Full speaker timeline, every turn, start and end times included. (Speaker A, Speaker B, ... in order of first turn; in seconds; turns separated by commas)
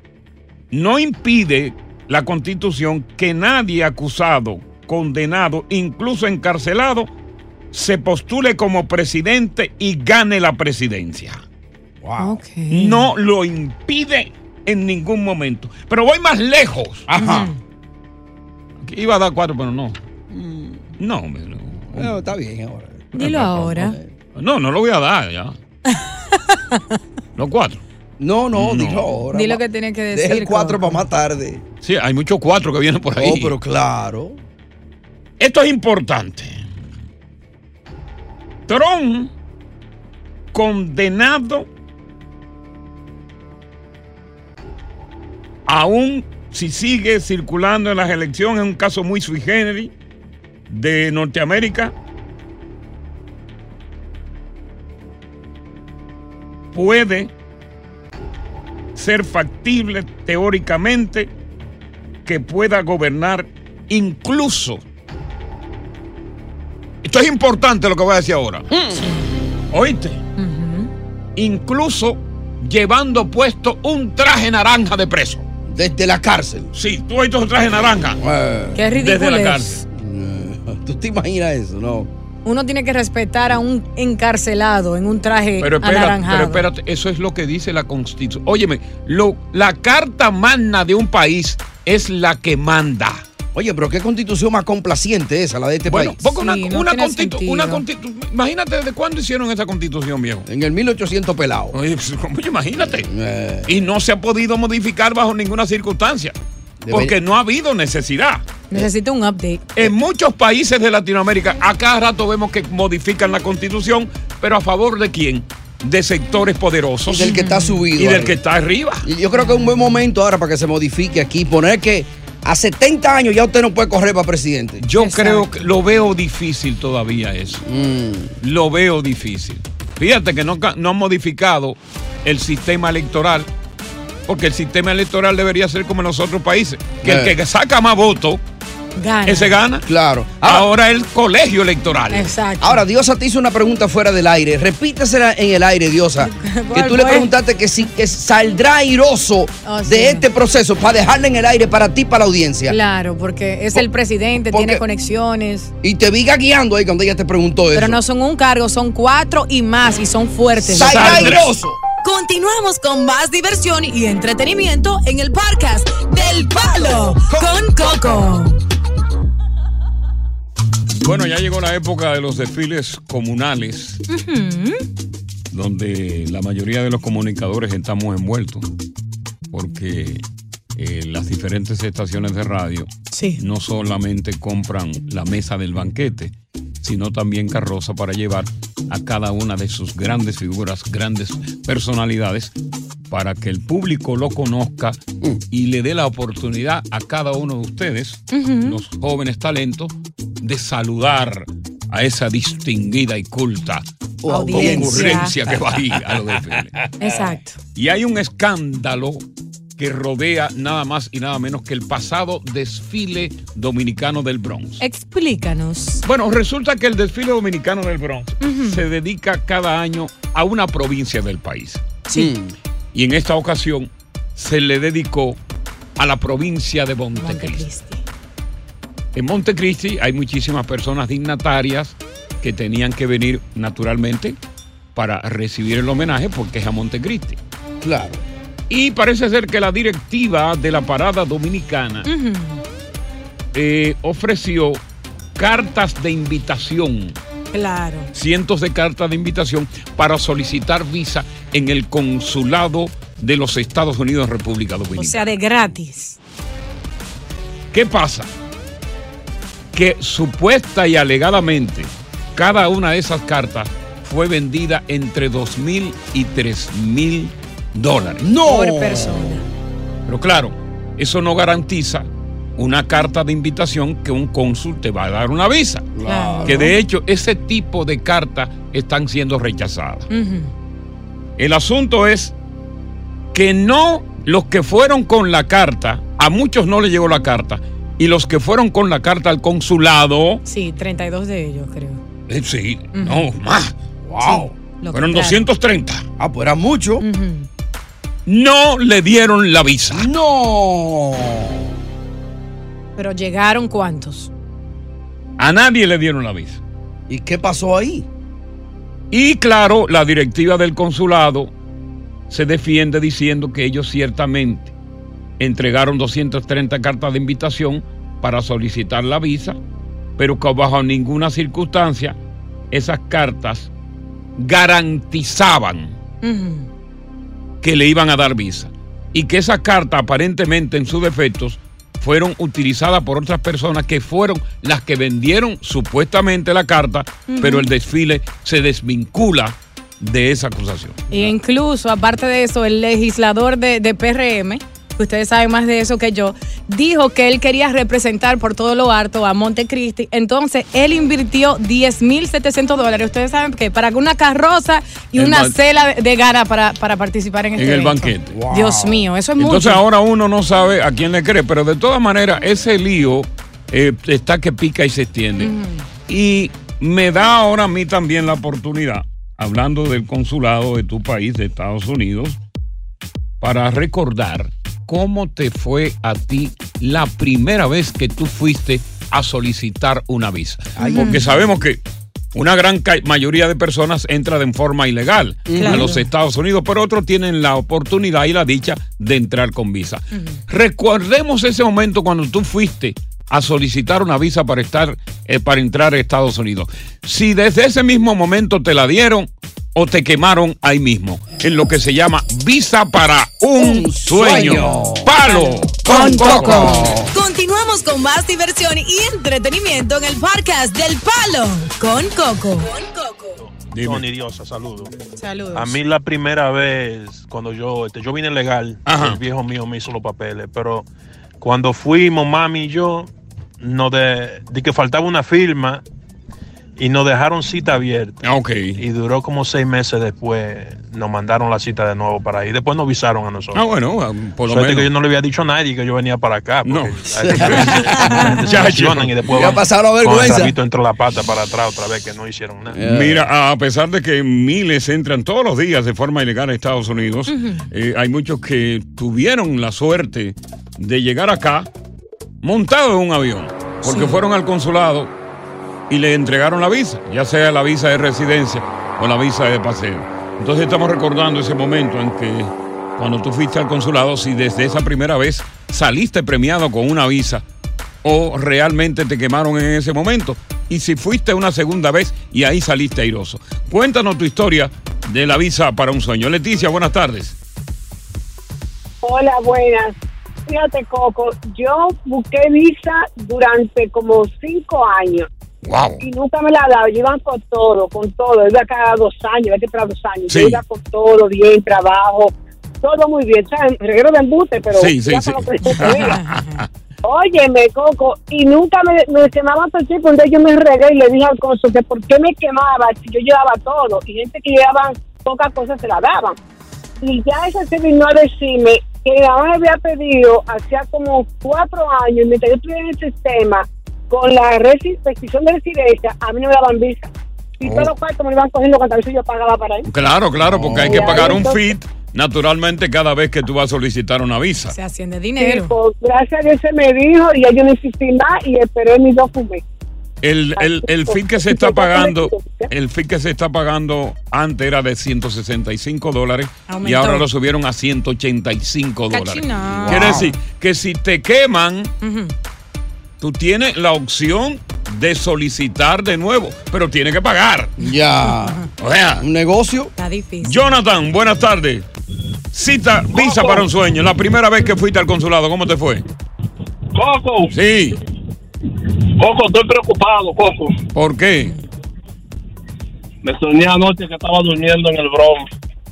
Speaker A: 0.7-7.1, Speaker A: 7.7-11.4, Speaker B: 12.0-12.4, Speaker C: 12.2-13.1, Speaker A: 12.7-17.1, Speaker B: 17.1-17.5, Speaker C: 17.2-17.6, Speaker A: 18.8-20.0, Speaker B: 20.3-20.9, Speaker A: 21.0-22.2, Speaker B: 21.9-24.1, Speaker C: 23.1-24.0, Speaker A: 23.2-23.8, Speaker A: 24.4-25.6, Speaker C: 25.9-27.0, Speaker A: 27.4-27.8, Speaker B: 28.2-31.6, Speaker A: 28.6-29.1, Speaker C: 29.3-31.1, Speaker A: 31.8-33.5, Speaker B: 33.2-34.4, Speaker A: 35.4-36.7, Speaker A: 38.7-39.3, Speaker A: 40.5-41.7, Speaker A: 45.7-49.9, Speaker A: 50.7-51.9, Speaker A: 56.7-57.3, Speaker A: 59.0-61.3, Speaker A: 62.3-64.8, Speaker A: 67.0-68.7, Speaker B: 68.7-69.6, Speaker C: 68.9-69.3, Speaker A: 69.7-70.2, Speaker C: 70.4-70.9, Speaker A: 71.4-75.4, Speaker B: 75.7-76.7, Speaker A: 76.7-78.2, Speaker B: 78.2-78.8, Speaker C: 78.8-79.8, Speaker A: 78.9-79.8, Speaker B: 79.9-82.1, Speaker C: 82.5-86.7, Speaker A: 85.6-93.2, Speaker B: 93.5-96.2, Speaker A: 95.9-100.5, Speaker C: 96.3-97.8, Speaker B: 100.5-101.8, Speaker A: 101.7-103.1, Speaker B: 102.8-103.7, Speaker A: 103.7-106.3, Speaker B: 106.8-107.2, Speaker A: 106.9-108.4, Speaker C: 108.7-109.7, Speaker A: 109.8-117.4, Speaker B: 117.1-118.4, Speaker C: 117.2-117.9, Speaker A: 118.0-119.1, Speaker B: 119.0-124.8, Speaker C: 119.3-120.0, Speaker A: 124.8-127.6, Speaker C: 125.0-125.7, Speaker B: 127.6-128.4, Speaker A: 128.4-133.5, Speaker A: 134.3-138.4, Speaker B: 137.0-137.3, Speaker C: 139.0-139.5, Speaker A: 139.3-139.9, Speaker B: 139.9-140.7, Speaker A: 140.4-142.3, Speaker C: 142.1-142.8, Speaker B: 142.6-152.8, Speaker C: 146.2-147.3, Speaker C: 149.6-150.2, Speaker C: 152.7-155.7, Speaker B: 154.5-154.8, Speaker B: 155.8-158.0, Speaker C: 157.7-161.4, Speaker B: 160.6-161.8, Speaker A: 160.8-161.5, Speaker C: 162.0-168.6, Speaker B: 166.7-168.3, Speaker A: 171.0-174.0, Speaker C: 174.1-174.8, Speaker A: 175.5-178.7, Speaker A: 179.5-180.2, Speaker A: 180.8-192.5, Speaker C: 183.1-183.4, Speaker A: 193.1-195.0, Speaker A: 195.5-203.8, Speaker C: 198.3-198.8, Speaker B: 204.2-205.6, Speaker C: 204.3-205.3, Speaker A: 204.5-206.8, Speaker C: 207.0-207.6, Speaker A: 207.8-209.2, Speaker A: 209.8-214.8, Speaker C: 214.8-216.0, Speaker A: 216.0-221.8, Speaker C: 218.4-218.8, Speaker C: 222.1-222.3, Speaker B: 222.1-222.6, Speaker A: 222.9-225.4, Speaker A: 226.0-227.7, Speaker C: 227.2-228.0, Speaker A: 229.2-234.4, Speaker A: 234.9-237.4, Speaker B: 237.8-238.2, Speaker A: 238.7-242.1, Speaker C: 242.1-242.6, Speaker A: 243.5-244.8, Speaker A: 245.4-247.2, Speaker C: 247.5-248.1, Speaker A: 248.1-255.3, Speaker C: 255.0-256.2, Speaker A: 257.7-258.3, Speaker A: 259.7-268.3, Speaker B: 268.2-269.4, Speaker C: 268.4-269.4, Speaker A: 270.1-275.9, Speaker B: 275.9-276.7, Speaker C: 276.1-276.7, Speaker A: 276.4-280.1, Speaker C: 280.1-280.5, Speaker A: 281.4-282.3, Speaker A: 283.3-290.4, Speaker C: 290.4-292.0, Speaker A: 292.3-293.7, Speaker C: 292.9-293.3, Speaker B: 294.0-294.6, Speaker C: 294.2-295.4, Speaker A: 294.9-296.1, Speaker B: 296.2-297.1, Speaker C: 297.0-297.5, Speaker A: 298.3-300.1, Speaker B: 299.9-301.8, Speaker C: 303.0-304.3, Speaker A: 305.4-306.6, Speaker B: 307.1-308.1, Speaker A: 309.1-311.5, Speaker A: 312.3-314.7, Speaker A: 315.4-319.6, Speaker A: 320.2-322.2, Speaker A: 322.7-323.7, Speaker A: 324.4-326.0, Speaker C: 326.2-326.7, Speaker A: 327.6-341.3, Speaker C: 337.3-337.7, Speaker C: 341.1-359.8, Speaker A: 355.1-355.6, Speaker A: 357.6-358.3, Speaker B: 358.3-359.1, Speaker A: 359.4-365.5, Speaker C: 365.4-365.9, Speaker A: 366.1-372.4, Speaker A: 373.4-381.8, Speaker B: 380.8-381.3, Speaker C: 380.8-381.3, Speaker A: 382.3-406.9, Speaker B: 385.5-386.0, Speaker C: 385.6-386.0, Speaker C: 390.1-390.4, Speaker B: 403.6-405.2, Speaker C: 404.4-413.4, Speaker B: 405.9-407.1, Speaker D: 413.4-414.9, Speaker A: 413.7-414.1, Speaker C: 415.2-415.8, Speaker D: 415.5-420.9, Speaker A: 418.9-419.2, Speaker D: 421.4-425.8, Speaker D: 426.8-428.2, Speaker A: 428.2-428.8, Speaker D: 428.8-433.6, Speaker A: 433.5-434.9, Speaker D: 434.5-442.8, Speaker A: 436.6-439.2, Speaker B: 437.2-438.3, Speaker B: 439.3-440.6, Speaker B: 442.7-443.2, Speaker A: 442.8-451.7, Speaker C: 447.3-447.7, Speaker A: 452.4-455.1, Speaker C: 453.8-454.2, Speaker A: 455.9-467.4, Speaker A: 468.0-477.4, Speaker E: 479.0-480.0, Speaker E: 480.5-485.3, Speaker A: 485.6-486.0, Speaker E: 486.0-496.2, Speaker A: 490.3-490.6, Speaker A: 494.8-496.7, Speaker C: 495.8-496.6, Speaker E: 497.0-506.4, Speaker E: 507.0-519.9, Speaker A: 517.6-517.9, Speaker A: 519.9-524.8, Speaker B: 520.4-521.4, Speaker E: 520.8-521.7, Speaker C: 524.7-525.8, Speaker E: 525.4-529.6, Speaker A: 530.2-541.9, Speaker E: 530.6-532.7, Speaker C: 536.7-537.3, Speaker C: 539.1-540.3, Speaker B: 539.7-540.3, Speaker C: 542.0-542.3, Speaker A: 543.2-547.8, Speaker B: 547.8-548.6, Speaker A: 548.8-549.3, Speaker B: 549.2-549.9, Speaker C: 550.0-550.7, Speaker A: 550.4-551.9, Speaker A: 552.5-556.0, Speaker F: 553.1-553.7, Speaker F: 557.0-557.5, Speaker A: 557.5-558.0, Speaker F: 559.2-560.8, Speaker A: 561.0-561.5, Speaker F: 563.2-565.5